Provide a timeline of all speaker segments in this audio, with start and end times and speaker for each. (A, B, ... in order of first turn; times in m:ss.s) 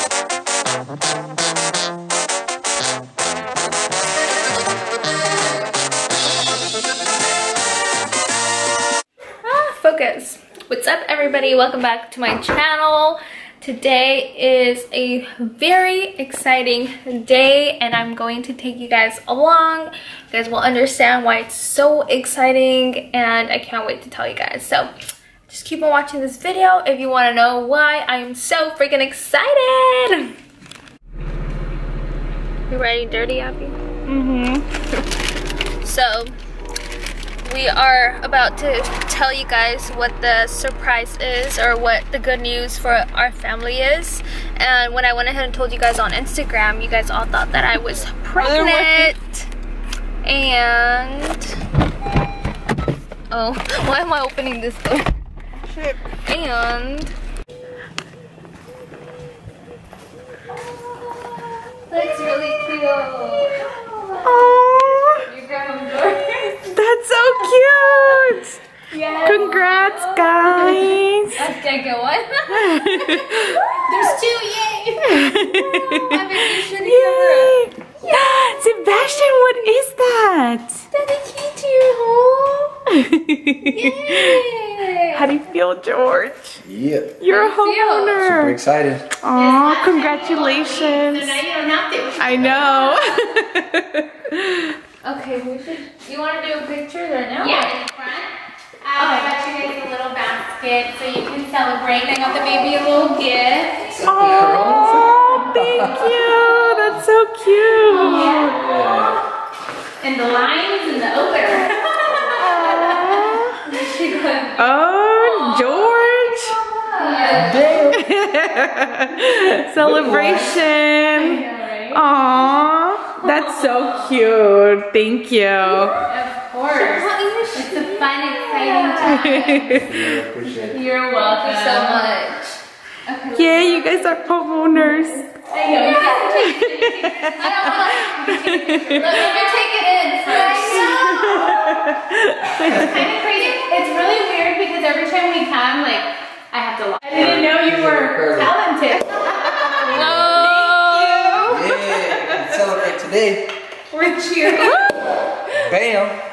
0:09.4-0:24.9 A
0:25.5-0:30.3 A
0:32.7-0:33.8 A
0:34.1-0:34.6 B
0:35.8-0:36.3 A
0:37.4-0:49.5 A
0:48.4-0:49.1 B
0:50.2-0:51.6 A
0:53.3-0:55.1 A
0:56.2-0:57.1 A
1:00.7-1:01.3 A
1:01.9-1:04.6 A
1:04.2-1:05.2 B
1:05.2-1:06.8 A
1:06.7-1:08.6 B
1:08.9-1:09.7 C
1:09.0-1:10.7 A
1:09.2-1:11.4 B
1:10.5-1:11.0 C
1:11.3-1:14.2 A
1:12.5-1:13.6 B
1:13.7-1:15.5 C
1:15.1-1:20.8 B
1:15.5-1:18.2 A
1:20.9-1:22.8 A
1:22.9-1:24.4 B
1:23.7-1:24.2 C
1:24.0-1:25.3 A
1:25.1-1:26.6 B
1:26.6-1:27.1 D
1:27.2-1:28.6 B
1:27.3-1:28.3 A
1:28.2-1:29.0 D
1:29.2-1:31.4 B
1:29.3-1:32.8 C
1:32.2-1:34.7 B
1:32.4-1:33.2 A
1:35.0-1:37.8 A
1:37.4-1:44.0 C
1:39.0-1:39.3 B
1:44.0-1:46.3 D
1:44.0-1:48.6 B
1:46.4-1:46.8 A
1:47.9-1:49.1 C
1:48.5-1:49.2 D
1:50.0-1:53.4 C
1:52.3-1:53.6 B
1:53.6-1:54.6 A
1:54.6-1:56.6 B
1:55.2-1:55.8 A
1:56.8-1:57.8 A
1:56.9-1:57.6 C
1:57.5-1:58.0 D
1:57.9-2:06.0 B
1:59.8-2:00.4 D
2:01.1-2:02.0 C
2:03.2-2:04.1 A
2:05.6-2:06.1 A
2:06.0-2:12.2 C
2:06.7-2:09.5 A
2:09.0-2:10.0 B
2:09.8-2:10.8 D
2:11.1-2:12.6 A
2:13.1-2:21.6 C
2:13.3-2:15.3 B
2:15.7-2:16.3 A
2:16.4-2:19.1 B
2:17.4-2:21.5 A
2:20.3-2:23.1 B
2:22.6-2:30.0 C
2:27.1-2:28.5 D
2:29.7-2:32.6 B
2:29.9-2:31.6 A
2:29.9-2:30.4 D
2:31.5-2:33.5 D
2:33.9-2:34.9 C
2:34.4-2:34.9 A
2:35.6-2:36.2 D